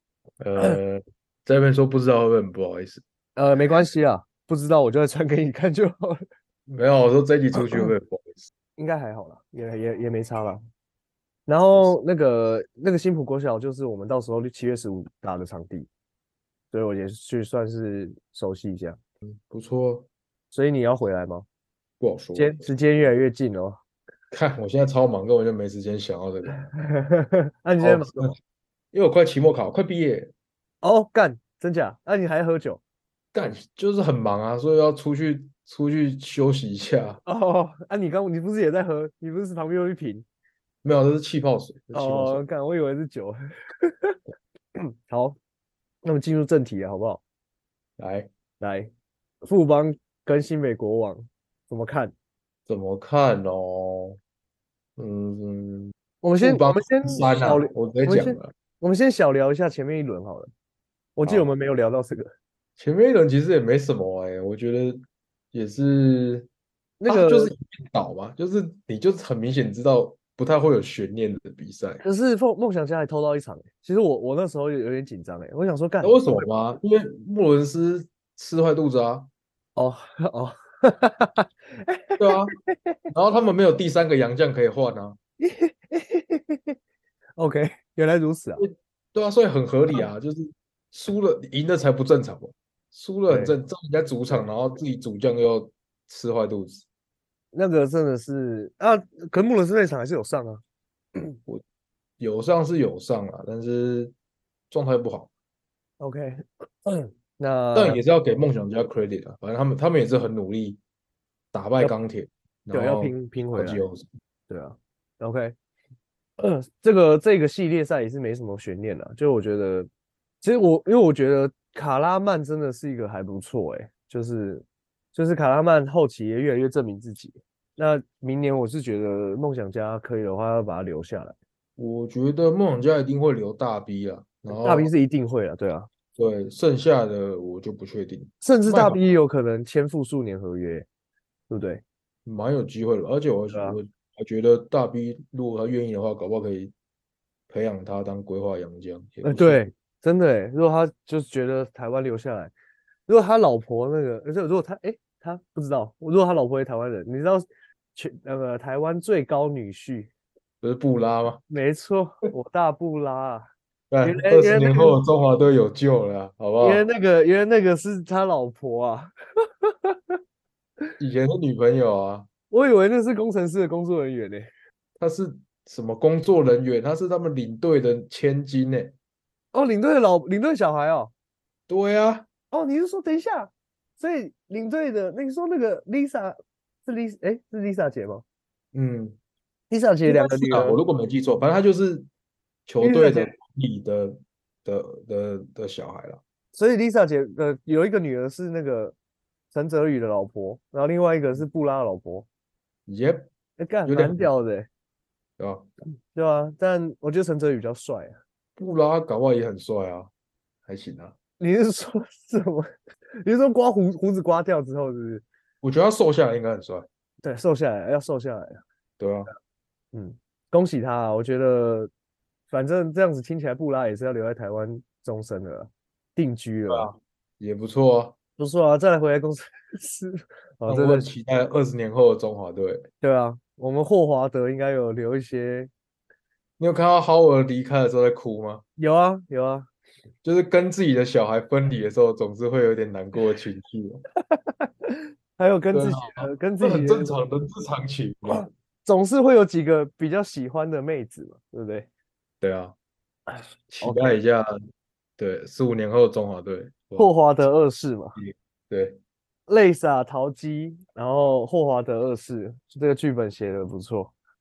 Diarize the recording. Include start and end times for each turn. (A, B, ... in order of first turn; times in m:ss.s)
0:00.4-0:03.0 A
0:03.4-0:06.2 B
0:06.7-0:08.5 A
0:08.8-0:10.6 B
0:11.5-0:15.9 B
0:16.7-0:19.0 B
0:19.2-0:20.1 A
0:20.5-0:21.5 B
0:22.0-0:22.7 A
0:22.4-0:23.8 B
0:24.3-0:26.7 A
0:26.5-0:28.3 B
0:27.8-0:28.4 A
0:28.9-0:30.3 A
0:30.8-0:32.8 B
0:33.3-0:37.2 A
0:37.2-0:40.3 B
0:40.8-0:42.4 A
0:41.9-0:44.2 B
0:45.1-0:45.4 B
0:46.0-0:47.2 B
0:48.0-0:48.3 A
0:48.6-0:48.9 B
0:49.4-0:52.1 B
0:52.7-0:54.2 A
0:55.0-0:58.5 A
0:56.2-1:00.5 B
1:01.2-1:02.3 B
1:01.2-1:01.5 A
1:02.8-1:05.0 A
1:05.5-1:06.5 A
1:07.0-1:07.5 B
1:07.1-1:12.0 A
1:12.0-1:16.5 B
1:16.0-1:19.3 A
1:19.8-1:23.0 B
1:22.2-1:22.5 A
1:23.1-1:25.2 A
1:25.4-1:26.8 B
1:27.4-1:28.6 B
1:28.6-1:36.8 A
1:33.3-1:33.6 B
1:37.5-1:40.6 B
1:42.2-1:44.1 A
1:44.7-1:45.3 A
1:46.0-1:48.0 B
1:47.7-1:50.8 A
1:51.5-1:54.1 A
1:52.7-1:53.8 B
1:54.5-1:55.6 B
1:56.4-1:59.9 B
2:00.4-2:11.4 B
2:11.8-2:14.9 A
2:14.5-2:15.9 B
2:16.2-2:19.0 A
2:18.4-2:20.9 B
2:21.5-2:21.8 B
2:22.2-2:26.7 A
2:23.5-2:23.8 B
2:27.5-2:29.7 A
2:29.2-2:32.5 B
2:33.1-2:40.1 B
2:40.6-2:41.4 A
2:41.5-2:43.5 B
2:43.9-2:46.9 A
2:44.0-2:45.0 B
2:46.6-2:50.2 B
2:51.0-2:52.3 A
2:52.5-2:54.5 B
2:55.0-2:59.0 A
2:59.5-3:01.1 B
3:01.7-3:02.3 A
3:02.5-3:08.2 B
3:08.7-3:09.2 A
3:09.7-3:10.8 B
3:10.0-3:12.1 A
3:12.7-3:16.2 A
3:12.8-3:13.3 B
3:16.5-3:19.0 B
3:19.5-3:22.3 B
3:22.9-3:23.3 A
3:23.6-3:24.7 B
3:23.9-3:24.3 A
3:25.4-3:25.7 A
3:26.1-3:28.2 B
3:28.6-3:30.1 A
3:30.7-3:31.1 A
3:31.4-3:32.7 B
3:33.2-3:35.2 B
3:35.6-3:36.9 A
3:37.2-3:38.6 B
3:39.0-3:39.3 A
3:39.9-3:41.9 B
3:42.5-3:46.9 B
3:46.7-3:48.2 A
3:48.4-3:51.1 B
3:50.7-3:52.9 A
3:53.0-3:55.7 B
3:56.6-3:58.6 A
3:58.8-3:59.7 B
4:00.2-4:04.0 A
4:04.3-4:07.2 B
4:05.7-4:08.5 A
4:08.3-4:11.9 B
4:12.4-4:12.8 A
4:13.3-4:14.2 B
4:13.7-4:14.5 A
4:15.2-4:17.1 A
4:17.0-4:18.2 B
4:18.2-4:19.0 A
4:19.5-4:24.1 B